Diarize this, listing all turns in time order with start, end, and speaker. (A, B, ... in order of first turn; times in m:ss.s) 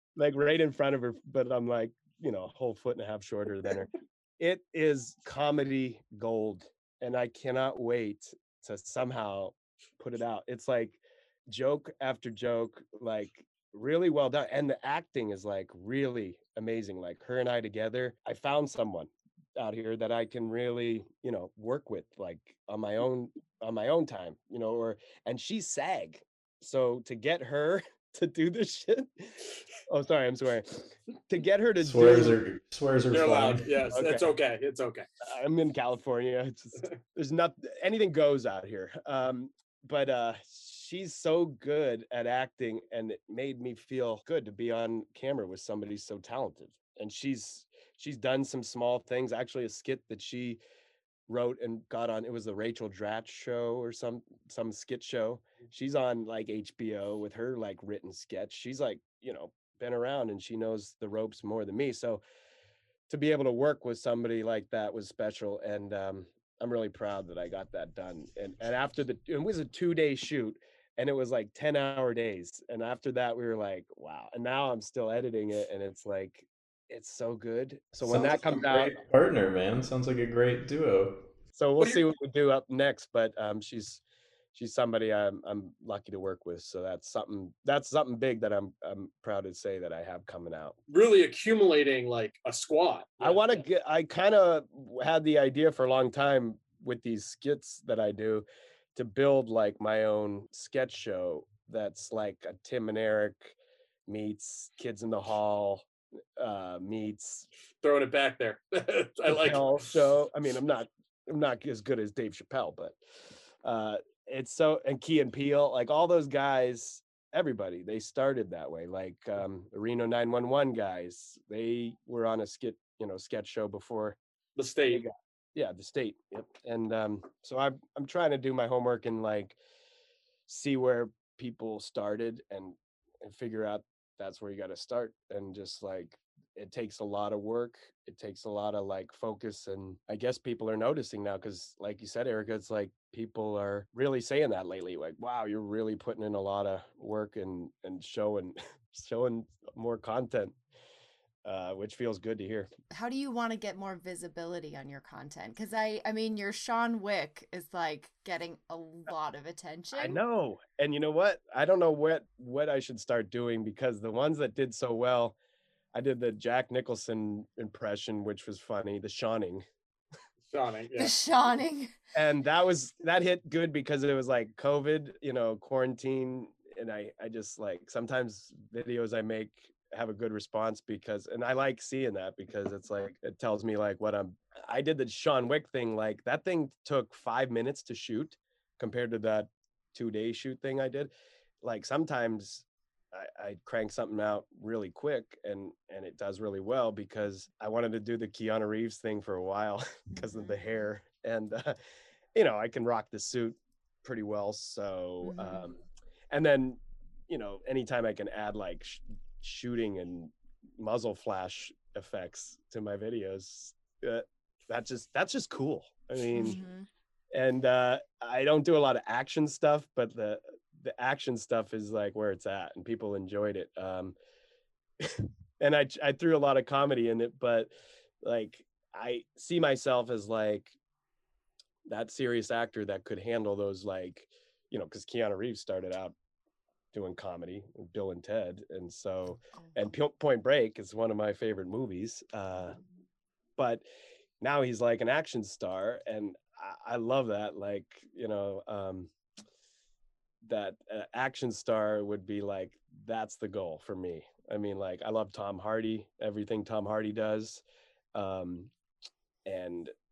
0:00.2-0:32.4 A
0:31.8-0:33.7 B
0:33.1-0:35.1 C
0:33.9-0:34.3 A
0:35.2-0:50.6 A
0:51.3-1:02.2 A
1:03.1-1:19.0 A
1:18.0-1:21.3 B
1:21.6-1:24.0 A
1:24.5-1:30.8 A
1:30.9-1:33.6 C
1:33.2-1:43.6 A
1:44.1-1:47.5 A
1:47.8-1:49.9 C
1:49.3-1:53.0 A
1:53.6-2:04.2 A
2:04.6-2:05.1 C
2:04.9-2:09.6 A
2:10.5-2:30.6 A
2:31.4-2:32.7 A
2:32.9-2:40.2 D
2:39.9-2:45.4 A
2:45.9-2:49.6 A
2:50.5-2:51.1 C
2:51.0-2:51.9 D
2:52.2-3:21.8 A
3:20.1-3:20.6 D
3:22.4-3:36.6 A
3:25.2-3:25.7 D
3:36.3-3:36.9 D
3:37.3-3:44.2 A
3:45.0-3:50.8 A
3:51.9-3:56.2 A
3:56.9-4:02.8 A
4:03.6-4:03.8 A
4:04.4-4:09.1 A
4:10.4-4:18.7 A
4:19.5-4:19.9 A